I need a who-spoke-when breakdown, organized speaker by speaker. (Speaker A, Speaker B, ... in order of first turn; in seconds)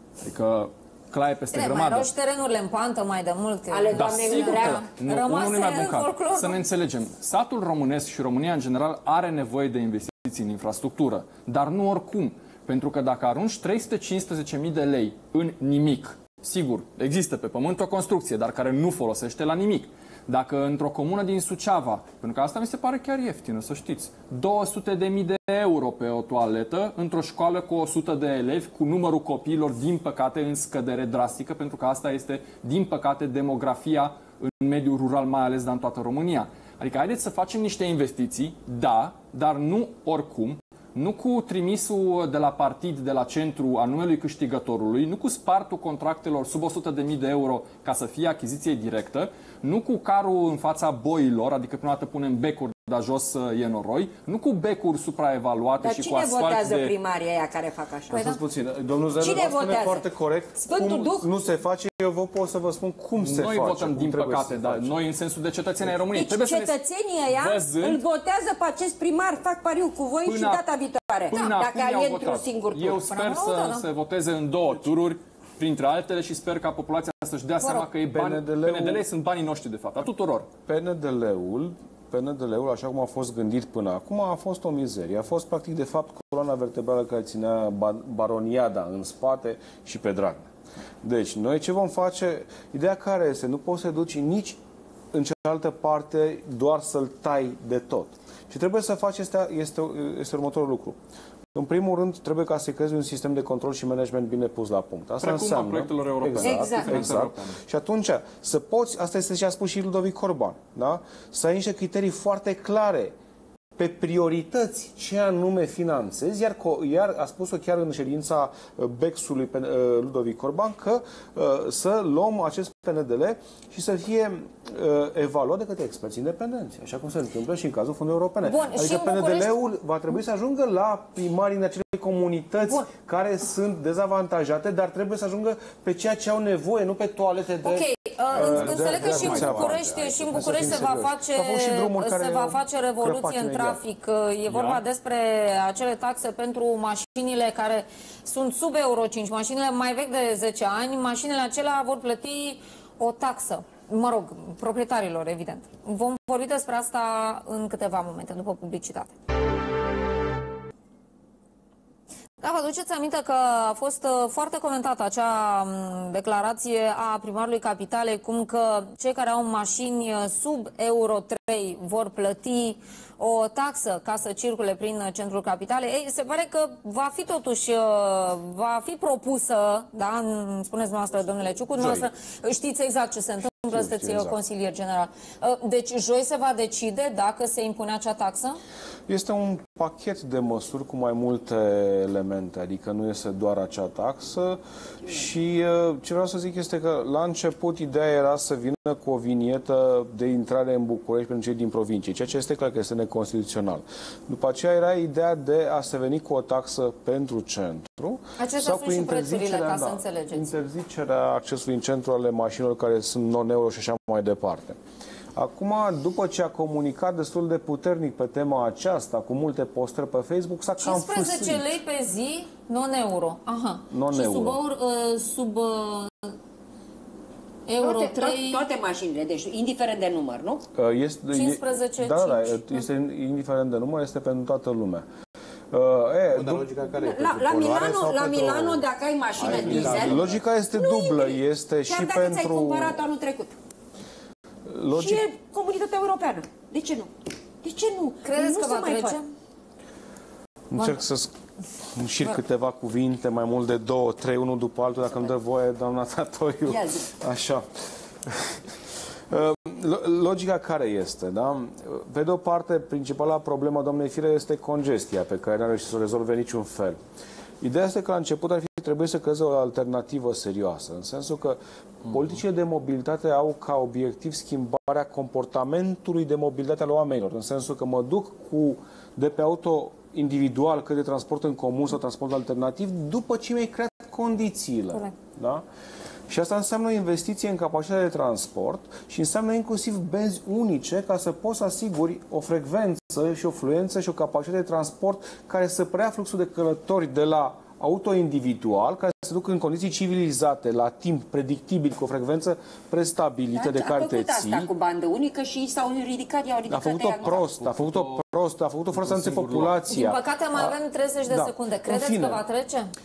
Speaker A: 0.2-2.1, 3.9-56.9, 63.2-66.8, 67.3-68.0, 70.2-70.6, 71.3-80.5, 105.2-107.6, 144.5-144.8, 307.3-308.2, 308.9-309.8
Speaker B: 1.5-6.6, 58.1-58.4, 71.3-71.6, 73.0-73.9, 77.6-77.9, 128.4-129.5, 137.6-159.1, 162.4-188.6, 208.4-210.5, 220.8-226.3, 227.7-228.6, 231.3-232.8, 248.2-249.3, 309.9-312.9
Speaker C: 3.7-4.9, 55.8-58.2, 59.2-61.3, 66.1-73.1, 106.4-107.2, 227.8-230.6, 237.0-243.6, 244.9-247.1, 247.6-249.2, 256.6-257.1, 303.5-307.4
Speaker D: 58.1-64.9, 78.0-79.0, 80.7-90.5, 91.0-94.6, 95.1-101.0, 101.5-113.2, 113.8-143.8, 181.7-182.1, 183.4-184.4, 189.1-214.8, 215.3-221.7, 223.9-224.6, 230.7-235.1, 235.7-236.7, 239.4-243.0, 244.7-245.2, 250.7-251.3, 251.9-257.6, 258.2-258.6, 259.3-267.0, 267.6-285.6, 286.3-304.7, 306.7-312.4
Speaker E: 138.3-140.9, 236.3-240.4